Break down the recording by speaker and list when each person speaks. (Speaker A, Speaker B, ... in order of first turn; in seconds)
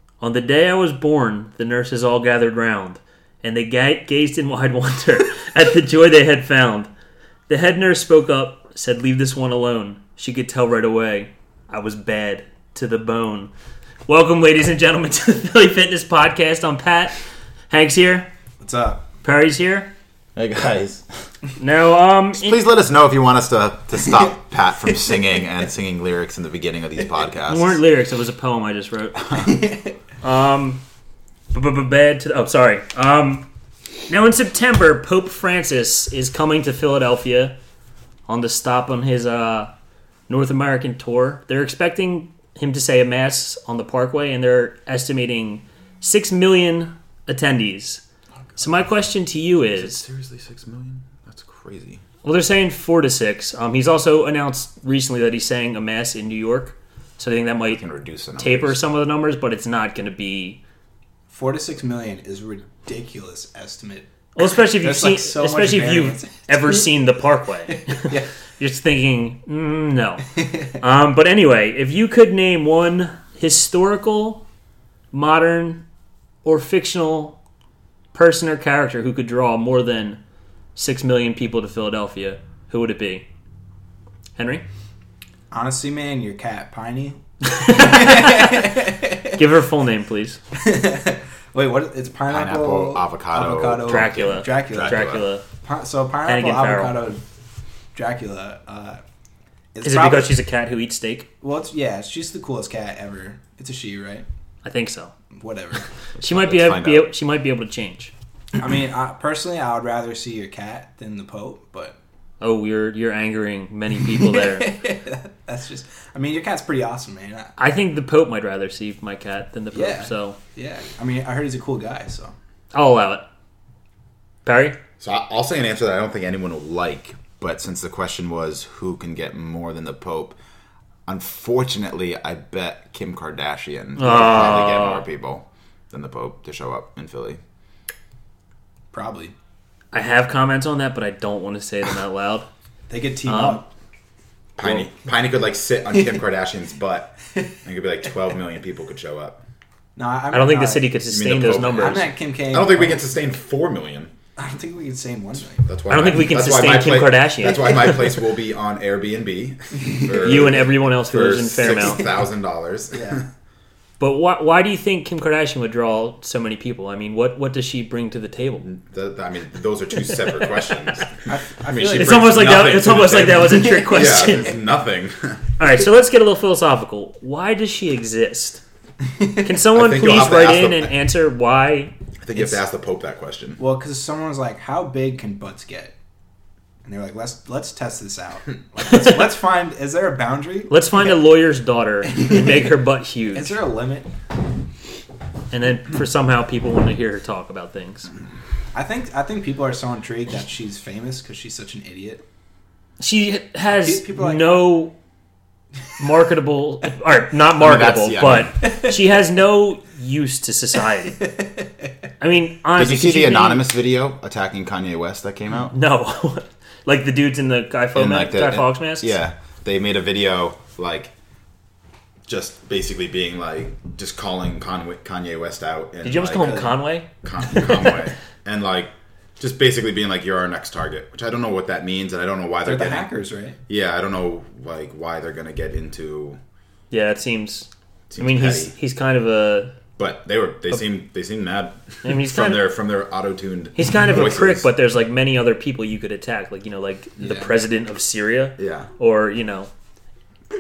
Speaker A: 0.2-6.9, 7.5-13.5, 14.1-17.2, 17.7-18.3, 19.2-19.9, 21.6-22.6, 27.5-29.5, 30.2-30.8, 31.5-33.5, 34.1-37.5, 38.3-39.7, 40.3-48.0, 48.6-50.1, 52.2-57.8, 58.4-60.6, 64.4-74.4, 75.1-75.8, 76.4-77.4, 78.1-80.2, 80.8-83.3, 84.4-84.7, 87.4-88.8, 89.3-90.4, 93.9-95.5, 96.3-97.0, 99.8-101.3, 104.6-105.1, 106.2-108.1, 112.4-114.7, 117.6-120.4, 122.7-123.3, 124.5-124.8, 134.0-135.1, 139.9-142.5, 143.3-143.6, 150.3-152.1, 155.9-158.2, 160.1-162.1, 164.0-168.7, 171.9-174.6, 175.6-178.6, 179.4-181.9, 190.7-193.6, 195.5-198.1, 203.0-204.9, 206.0-211.2, 212.2-213.7, 215.7-219.2, 226.0-227.1, 236.9-239.8, 242.0-242.7, 243.8-249.7
Speaker B: 18.6-19.1, 29.5-29.9, 61.3-66.9, 67.8-68.3, 85.5-89.4, 90.6-97.2, 98.0-99.0, 99.7-100.3, 101.4-104.3, 105.3-105.9, 108.6-112.0, 114.3-117.6, 119.7-122.3, 138.9-139.3, 142.9-143.7, 150.0-150.9, 151.7-153.1, 154.4-155.7, 162.9-163.2, 171.2-174.1, 182.3-182.6, 183.6-185.9, 186.8-190.9, 193.3-194.1, 198.7-202.2, 203.7-204.8, 211.2-211.7, 232.6-233.6, 247.2-247.6
Speaker C: 20.4-21.1, 22.4-27.8, 49.7-52.0, 57.7-58.8, 92.3-95.2, 106.2-107.1, 125.0-130.4, 131.1-137.4, 144.6-149.4, 151.1-154.1, 155.6-163.3, 168.6-175.5, 179.7-180.9, 182.2-183.6, 207.5-208.6, 212.8-215.7, 217.9-221.1, 222.3-233.1, 233.7-236.4, 238.1-238.7, 240.0-244.7, 248.6-248.9